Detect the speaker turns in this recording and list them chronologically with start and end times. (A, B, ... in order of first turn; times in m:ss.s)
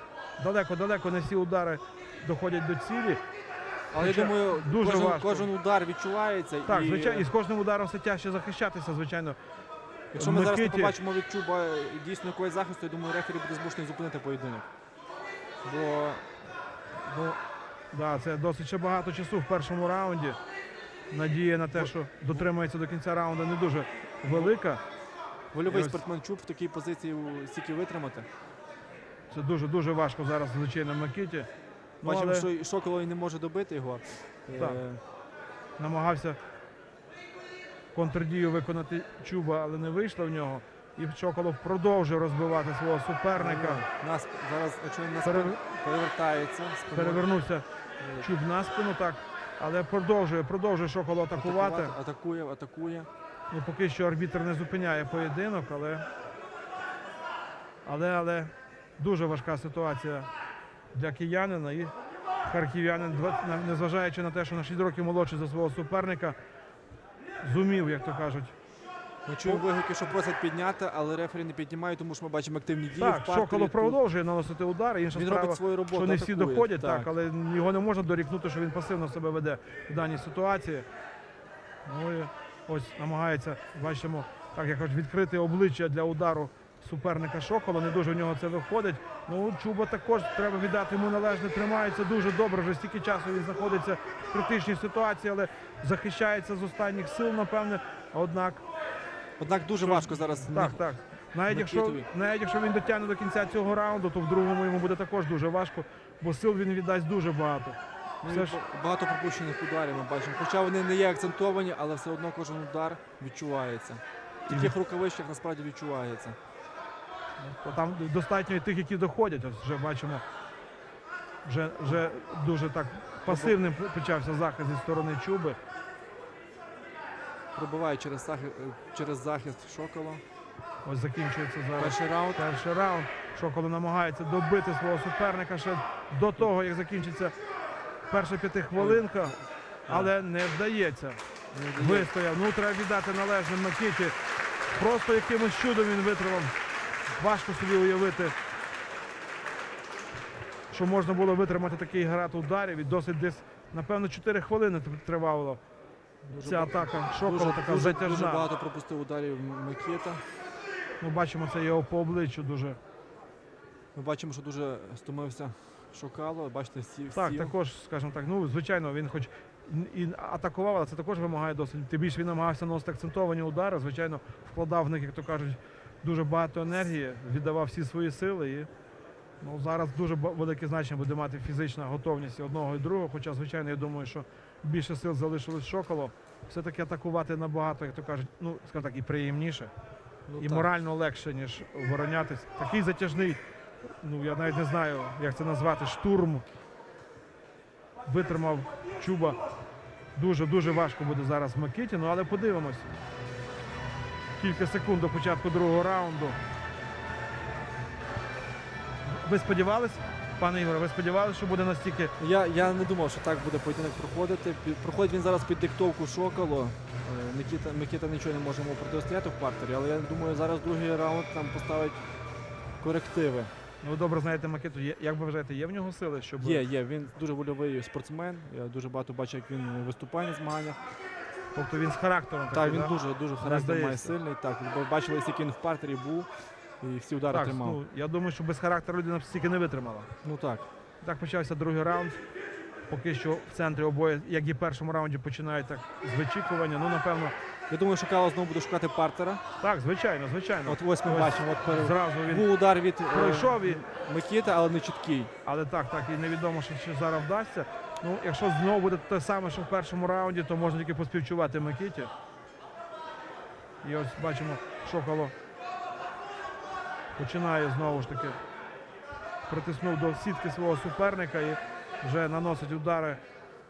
0:00.4-0:03.2 A
0:03.9-0:07.3 B
0:04.0-0:05.5 A
0:06.7-0:09.4 A
0:10.1-0:14.7 B
0:10.2-0:11.0 A
0:15.6-0:16.3 B
0:17.1-0:17.4 B
0:17.9-0:20.4 A
0:21.1-0:24.8 A
0:21.7-0:22.4 B
0:24.3-0:24.5 B
0:25.5-0:28.3 B
0:25.7-0:26.0 A
0:29.3-0:31.5 A
0:32.0-0:35.0 B
0:32.0-0:32.5 A
0:34.6-0:34.8 A
0:35.8-0:36.4 A
0:37.9-0:43.8 A
0:43.4-0:47.3 B
0:45.2-0:45.6 A
0:46.9-0:47.7 A
0:48.0-0:48.3 B
0:48.2-0:52.0 A
0:51.4-0:53.1 B
0:53.5-0:56.1 A
0:57.8-1:00.3 A
1:00.9-1:01.9 A
1:02.4-1:06.4 A
1:07.4-1:08.6 A
1:09.3-1:14.0 B
1:13.0-1:20.9 A
1:15.1-1:17.1 B
1:21.9-1:38.6 A
1:39.4-1:40.8 B
1:39.8-1:48.6 A
1:41.5-1:42.1 B
1:48.2-1:56.4 B
1:54.5-1:54.7 A
1:57.4-2:00.2 A
2:01.4-2:05.6 A
2:03.3-2:03.6 B
2:07.5-2:10.2 B
2:10.8-2:17.3 A
2:11.8-2:12.4 B
2:18.1-2:19.4 A
2:18.8-2:20.1 B
2:19.9-2:21.2 A
2:21.5-2:22.1 B
2:21.8-2:24.2 A
2:24.7-2:26.6 A
2:27.1-2:28.4 A
2:30.7-2:35.6 A
2:36.3-2:40.2 B
2:36.4-2:38.5 A
2:41.0-2:42.8 A
2:44.0-2:47.5 B
2:47.1-2:58.7 A
2:59.4-3:09.7 A
3:10.3-3:10.7 B
3:10.4-3:16.4 A
3:18.0-3:19.4 A
3:20.2-3:22.9 A
3:24.4-3:26.4 A
3:29.1-3:32.1 A
3:32.2-3:42.0 B
3:42.8-3:43.5 B
3:43.8-3:46.6 A
3:46.4-3:50.8 B
3:51.5-3:54.2 A
3:52.5-3:56.3 B
3:56.8-3:57.8 B
3:57.3-4:00.1 A
4:00.2-4:00.7 B
4:01.0-4:02.2 A
4:02.9-4:07.3 A
4:07.7-4:09.4 B
4:09.6-4:12.5 A
4:10.7-4:15.3 B
4:13.1-4:13.8 A
4:15.4-4:22.1 A
4:23.8-4:25.3 A
4:27.2-4:28.4 A
4:29.5-4:33.2 A